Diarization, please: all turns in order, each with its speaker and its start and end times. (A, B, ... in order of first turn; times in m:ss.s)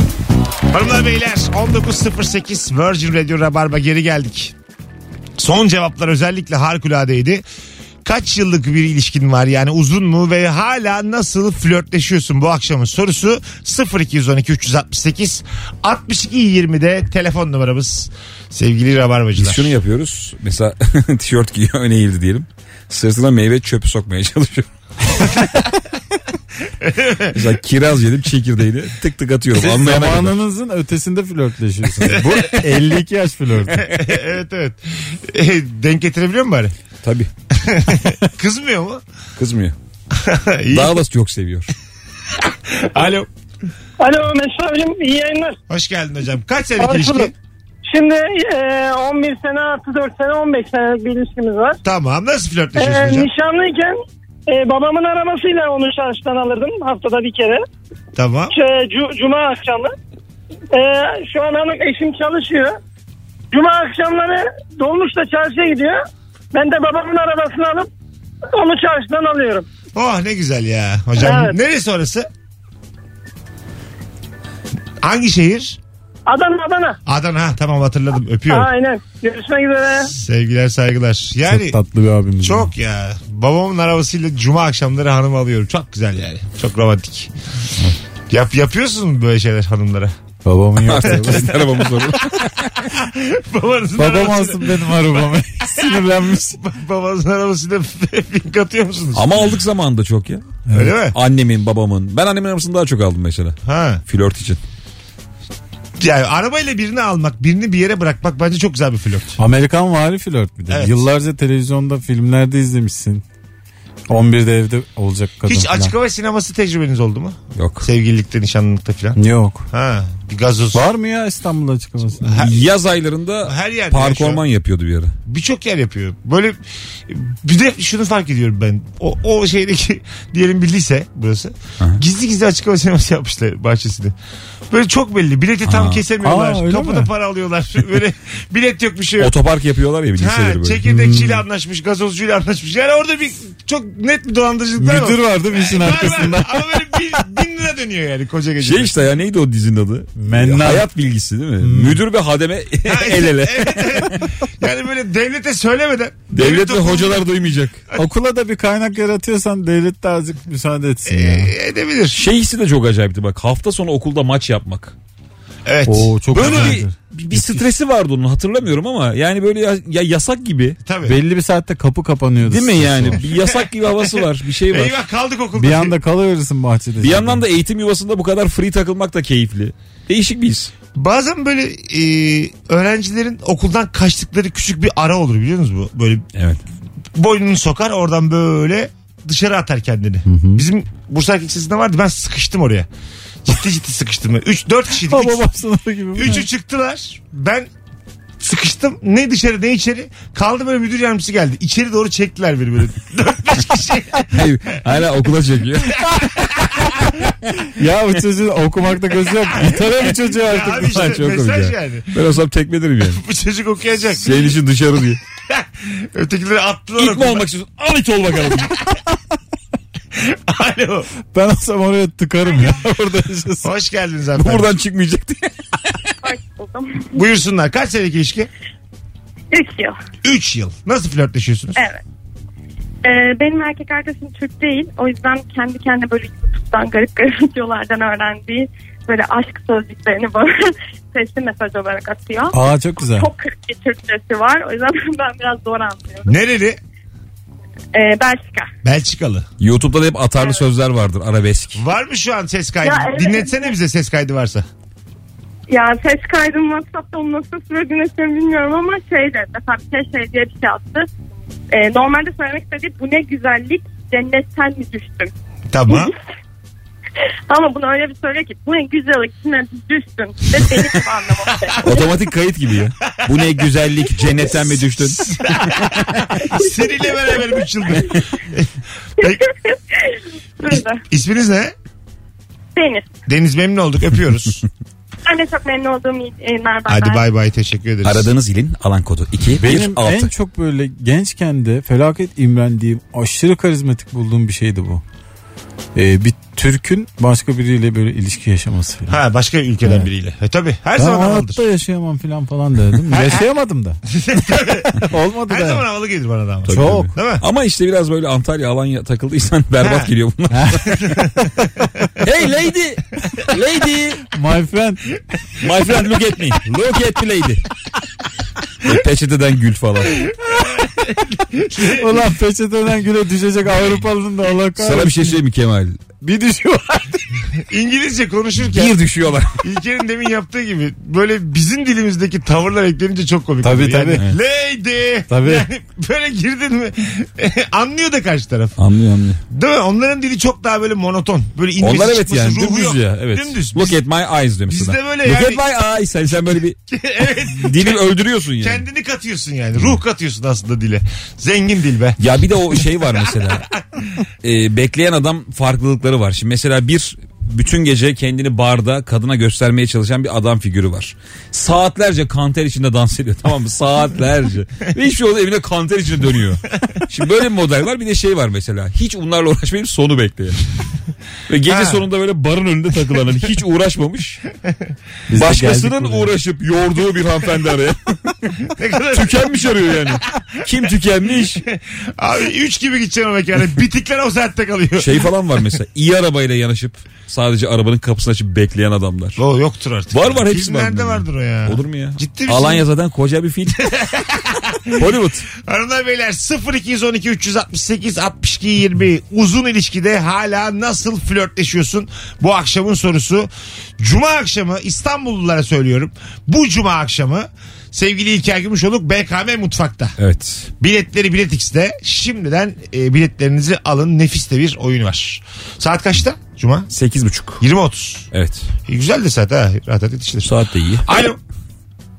0:00.7-0:04.5 A
0:05.4-0:07.4 A
0:08.0-0:19.8 A
0:19.4-0:25.2 B
0:26.8-0:27.3 A
0:27.3-0:30.4 B
0:29.6-0:34.0 C
0:32.1-0:32.7 A
0:33.7-0:36.7 A
0:37.0-0:37.3 B
0:37.5-0:39.0 A
0:39.4-0:39.7 B
0:40.1-0:41.0 A
0:40.7-0:41.7 B
0:42.7-0:43.3 A
0:44.0-0:45.6 D
0:45.7-0:47.3 A
0:46.8-0:47.3 D
0:47.8-0:51.8 D
0:51.8-0:53.3 A
0:52.8-0:57.6 D
0:58.1-0:58.5 A
0:58.5-0:59.9 D
1:00.7-1:02.8 D
1:03.5-1:06.0 D
1:06.5-1:07.9 D
1:08.5-1:09.6 D
1:09.9-1:12.3 A
1:11.2-1:11.6 D
1:15.0-1:15.8 A
1:16.2-1:17.0 D
1:17.1-1:18.7 A
1:18.5-1:20.1 D
1:20.0-1:21.8 A
1:21.4-1:22.7 C
1:22.4-1:27.3 A
1:28.3-1:30.1 A
1:30.4-1:31.6 C
1:30.8-1:32.9 B
1:32.9-1:35.2 A
1:34.0-1:36.6 C
1:35.8-1:39.3 A
1:39.1-1:44.6 B
1:40.7-1:41.2 A
1:43.6-1:44.0 A
1:46.0-1:49.4 A
1:49.4-1:53.2 C
1:50.7-1:51.0 A
1:54.1-1:55.9 C
1:55.4-1:59.2 A
1:57.5-1:57.8 B
1:59.2-1:59.7 C
1:59.7-2:00.9 A
2:00.7-2:02.5 C
2:02.2-2:02.5 A
2:02.4-2:05.1 B
2:03.4-2:04.4 A
2:05.2-2:14.1 A
2:14.7-2:19.3 A
2:15.6-2:16.0 B
2:16.2-2:17.1 C
2:19.2-2:20.8 B
2:20.2-2:28.9 A
2:20.9-2:21.4 C
2:24.8-2:26.6 C
2:28.6-2:34.2 B
2:30.2-2:30.9 C
2:31.6-2:32.0 C
2:32.8-2:37.3 A
2:36.3-2:37.8 B
2:38.0-2:41.5 C
2:41.1-2:42.2 A
2:42.1-2:44.9 B
2:45.6-2:46.8 A
2:45.9-2:47.6 C
2:46.3-2:50.8 B
2:50.8-2:51.2 A
2:51.0-2:53.2 C
2:52.4-2:54.9 B
2:53.2-2:54.2 A
2:54.7-2:55.9 A
2:55.6-2:57.4 C
2:57.0-3:00.7 B
3:00.9-3:06.2 A
3:06.3-3:06.6 B
3:07.1-3:12.9 A
3:10.3-3:10.6 C
3:13.4-3:15.4 A
3:15.1-3:16.4 C
3:16.2-3:17.7 A
3:18.4-3:24.4 A
3:24.3-3:26.4 B
3:26.0-3:26.8 A
3:27.7-3:31.0 C
3:30.2-3:32.2 A
3:30.7-3:33.2 B
3:33.1-3:34.4 A
3:34.2-3:35.2 B
3:35.5-3:37.4 A
3:37.0-3:38.9 B
3:40.1-3:41.1 A
3:41.3-3:43.7 C
3:43.6-3:44.7 A
3:44.4-3:45.9 B
3:46.2-3:47.2 E
3:47.1-3:48.5 A
3:49.5-3:50.0 E
3:50.2-3:51.8 A
3:51.8-3:52.0 E
3:53.0-4:06.4 E
4:02.5-4:03.3 C
4:06.2-4:06.8 A
4:07.9-4:08.7 E
4:08.8-4:09.5 A
4:09.6-4:11.8 B
4:11.7-4:14.6 A
4:12.8-4:13.7 E
4:15.7-4:21.1 E
4:21.7-4:25.3 E
4:25.7-4:26.1 A
4:25.9-4:26.1 E
4:27.5-4:32.1 E
4:31.8-4:35.3 B
4:35.2-4:39.4 A
4:39.2-4:41.0 E
4:40.7-4:41.7 A
4:42.8-4:43.1 E
4:43.3-4:44.6 A
4:45.2-4:47.2 E
4:46.9-4:48.3 A
4:48.0-4:50.3 B
4:49.6-4:55.0 C
4:55.9-4:59.2 C
4:59.1-5:01.6 A
5:01.0-5:05.8 C
5:03.1-5:03.4 A
5:04.1-5:07.4 A
5:06.7-5:11.0 B
5:06.7-5:07.1 C
5:09.8-5:10.1 A
5:10.5-5:11.5 C
5:12.2-5:14.3 B
5:14.3-5:15.2 C
5:15.6-5:17.6 B
5:18.8-5:20.3 B
5:20.8-5:22.2 A
5:21.8-5:25.4 C
5:24.8-5:26.0 B
5:26.2-5:27.2 C
5:27.6-5:28.9 A
5:28.7-5:29.6 B
5:29.6-5:38.8 A
5:33.6-5:34.2 C
5:35.3-5:35.7 C
5:38.8-5:39.4 B
5:39.5-5:44.0 A
5:41.8-5:46.8 B
5:44.7-5:45.6 A
5:46.9-5:48.1 A
5:47.6-5:48.8 B
5:48.6-5:52.2 A
5:52.2-5:53.7 B
5:53.2-5:53.6 A
5:54.4-6:10.6 B
6:11.5-6:14.4 B
6:11.6-6:12.0 A
6:15.3-6:16.3 C
6:15.4-6:18.6 B
6:18.7-6:20.0 A
6:19.1-6:21.6 B
6:21.6-6:25.3 A
6:25.0-6:29.4 B
6:29.4-6:32.8 A
6:30.1-6:34.0 B
6:33.8-6:50.2 A
6:34.9-6:35.5 B
6:50.2-6:50.7 B
6:50.8-6:56.9 A
6:56.9-6:57.6 B
6:57.6-6:58.3 A
6:58.3-6:58.7 B
6:58.9-7:00.5 A
7:00.4-7:01.1 B
7:01.0-7:01.4 A